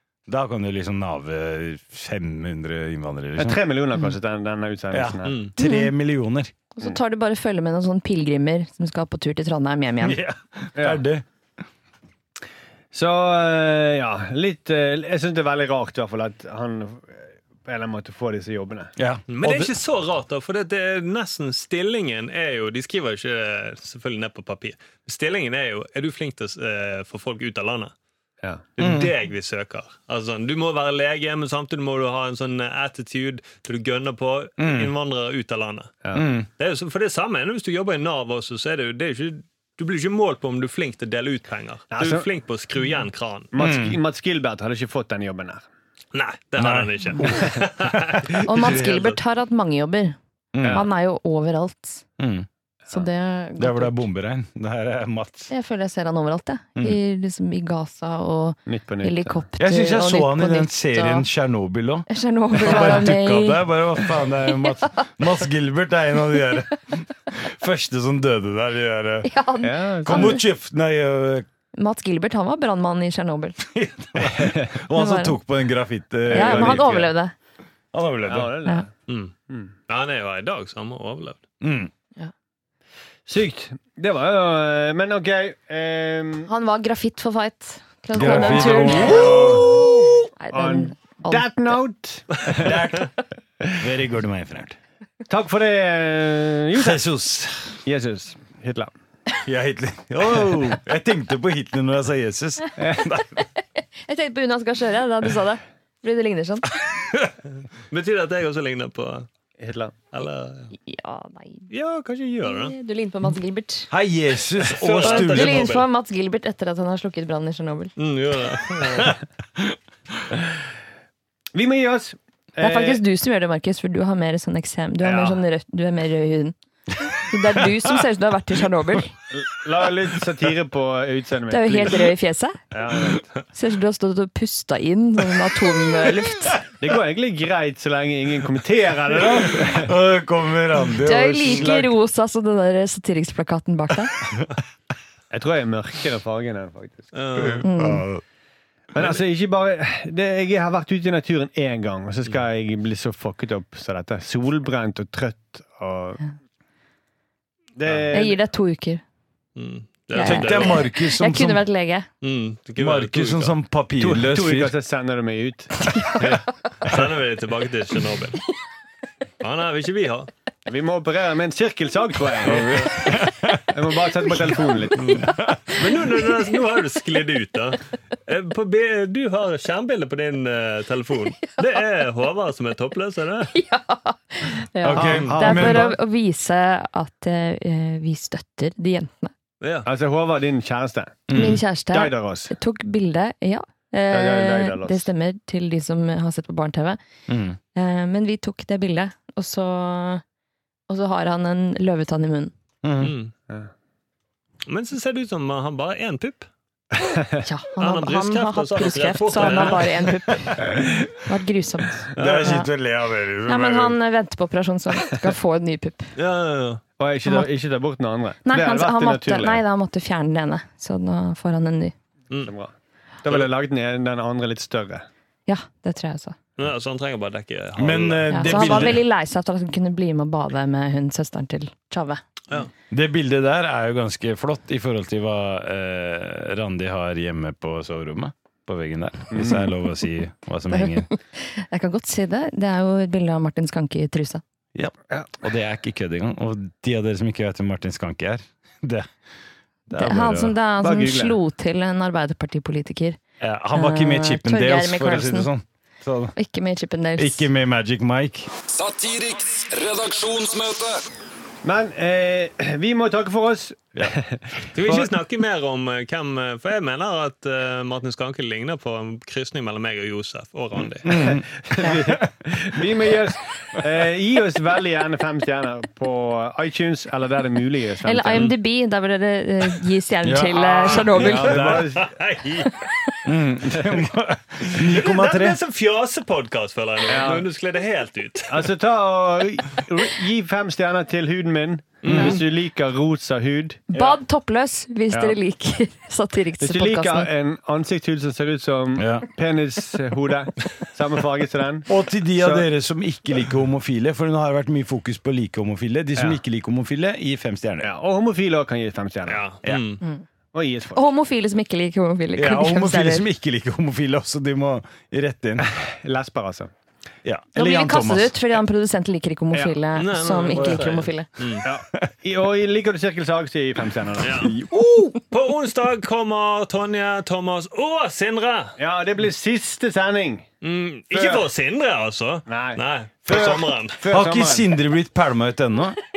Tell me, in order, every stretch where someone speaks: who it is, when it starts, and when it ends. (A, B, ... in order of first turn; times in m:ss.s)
0:00.3-0:03.6 A
0:03.4-0:05.5 B
0:04.9-0:06.5 A
0:05.3-0:05.5 C
0:05.6-0:05.9 D
0:06.8-0:10.2 D
0:10.0-0:11.2 A
0:10.8-0:11.0 B
0:12.9-0:18.9 B
0:19.0-0:19.7 A
0:19.3-0:27.9 C
0:28.4-0:29.0 B
0:28.8-0:36.0 C
0:28.8-0:29.1 A
0:34.6-0:34.9 A
0:36.1-0:36.5 A
0:36.6-0:43.5 C
0:41.9-0:42.3 B
0:43.5-0:45.6 B
0:43.6-0:44.0 A
0:46.1-0:49.2 C
0:46.6-0:47.6 A
0:48.4-0:50.2 D
0:50.5-0:50.9 A
0:50.6-0:50.9 B
0:50.7-0:52.0 D
0:52.2-0:52.5 A
0:52.9-0:54.0 D
0:53.6-0:55.5 A
0:55.5-1:01.3 D
0:58.7-0:59.4 B
0:59.6-1:09.3 A
1:02.1-1:05.1 D
1:09.2-1:10.4 D
1:09.6-1:10.4 B
1:10.0-1:11.4 A
1:11.8-1:13.6 D
1:13.6-1:17.1 A
1:14.4-1:14.6 B
1:14.9-1:15.4 D
1:16.3-1:17.3 D
1:16.3-1:17.0 B
1:17.9-1:18.5 A
1:18.3-1:18.9 B
1:19.1-1:19.3 C
1:19.9-1:21.4 C
1:21.6-1:21.9 A
1:23.3-1:26.5 B
1:26.5-1:29.7 D
1:28.2-1:30.0 A
1:28.2-1:33.0 B
1:30.4-1:31.7 D
1:32.6-1:33.1 A
1:33.8-1:34.8 A
1:35.3-1:37.0 B
1:36.7-1:37.8 A
1:37.8-1:38.9 B
1:39.4-1:43.3 A
1:42.8-1:43.1 B
1:44.0-1:46.7 D
1:47.9-1:49.3 C
1:49.6-1:49.9 B
1:50.1-1:50.7 C
1:50.8-1:51.7 D
1:51.7-1:52.8 C
1:52.4-1:53.9 D
1:53.9-1:55.7 A
1:54.6-1:55.9 C
1:55.0-1:57.9 D
1:58.0-1:59.2 C
2:01.5-2:03.0 B
2:02.6-2:06.6 D
2:05.0-2:05.4 B
2:07.1-2:09.2 D
2:09.3-2:12.1 B
2:11.5-2:12.6 D
2:12.7-2:13.2 B
2:13.5-2:16.6 D
2:16.8-2:19.9 B
2:19.6-2:21.9 A
2:21.0-2:24.1 D
2:25.3-2:27.4 B
2:27.1-2:27.7 C
2:27.4-2:28.2 A
2:27.6-2:28.1 D
2:29.0-2:36.2 B
2:37.8-2:38.4 B
2:38.1-2:39.0 D
2:39.6-2:40.9 C
2:40.1-2:42.1 D
2:40.2-2:41.6 A
2:42.2-2:43.6 C
2:42.8-2:44.8 A
2:44.0-2:46.4 B
2:45.8-2:46.4 D
2:46.8-2:48.4 C
2:49.4-2:50.3 C
2:50.7-2:52.9 B
2:52.4-2:54.4 A
2:52.5-2:53.0 C
2:53.7-2:55.2 B
2:55.1-2:55.4 D
2:55.2-2:55.7 A
2:55.7-3:03.5 C
3:03.5-3:09.3 D
3:04.8-3:05.9 A
3:05.0-3:06.0 B
3:05.0-3:05.3 C
3:09.6-3:09.9 C
3:09.8-3:11.3 B
3:11.3-3:11.6 A
3:11.3-3:17.0 D
3:11.9-3:12.5 B
3:14.1-3:15.1 B
3:17.3-3:17.6 A
3:17.8-3:20.2 D
3:20.9-3:22.5 D
3:22.8-3:23.1 A
3:23.0-3:23.3 C
3:24.7-3:26.5 C
3:27.0-3:27.4 B
3:27.4-3:32.7 D
3:27.8-3:30.0 C
3:32.2-3:34.0 A
3:32.2-3:32.6 C
3:33.5-3:36.1 D
3:36.2-3:36.8 C
3:37.0-3:39.6 B
3:37.2-3:37.5 D
3:38.5-3:41.9 D
3:42.5-3:42.7 B
3:43.2-3:45.1 B
3:43.2-3:43.5 C
3:45.5-3:46.4 D
3:46.6-3:49.0 C
3:47.8-3:49.0 A
3:48.3-3:52.2 D
3:52.9-4:01.1 A
3:59.3-3:59.7 B
4:00.7-4:04.4 D
4:04.8-4:09.1 A
4:09.9-4:13.2 D
4:09.9-4:10.5 A
4:10.8-4:11.4 B
4:13.4-4:16.4 A
4:13.7-4:15.5 D
4:16.4-4:17.5 D
4:17.2-4:18.5 A
4:18.7-4:21.0 E
4:21.6-4:25.2 B
4:24.7-4:31.2 C
4:31.0-4:31.5 A
4:31.1-4:38.5 B
4:31.8-4:32.2 D
4:38.0-4:41.6 D
4:40.2-4:42.0 A
4:40.8-4:42.7 C
4:41.2-4:42.1 B
4:42.6-4:43.1 D
4:43.2-4:45.6 A
4:44.7-4:48.7 C
4:47.1-4:47.5 B
4:48.5-4:54.1 B
4:52.0-4:52.4 C
4:52.0-4:52.4 A
4:53.9-4:57.3 D
4:56.6-5:02.7 B
4:59.0-4:59.3 A
5:01.9-5:07.9 A
5:07.8-5:09.4 B
5:09.3-5:10.0 C
5:10.5-5:11.0 B
5:10.9-5:13.3 D
5:12.4-5:15.7 A
5:15.6-5:16.7 B
5:17.2-5:18.4 A
5:17.6-5:21.3 D
5:20.0-5:21.7 C
5:20.5-5:20.9 A
5:21.6-5:24.5 B
5:24.2-5:24.5 C
5:24.4-5:25.2 A
5:25.3-5:28.8 C
5:28.8-5:30.5 B
5:30.6-5:34.0 C
5:31.1-5:31.4 B
5:32.5-5:34.7 B
5:34.1-5:36.0 A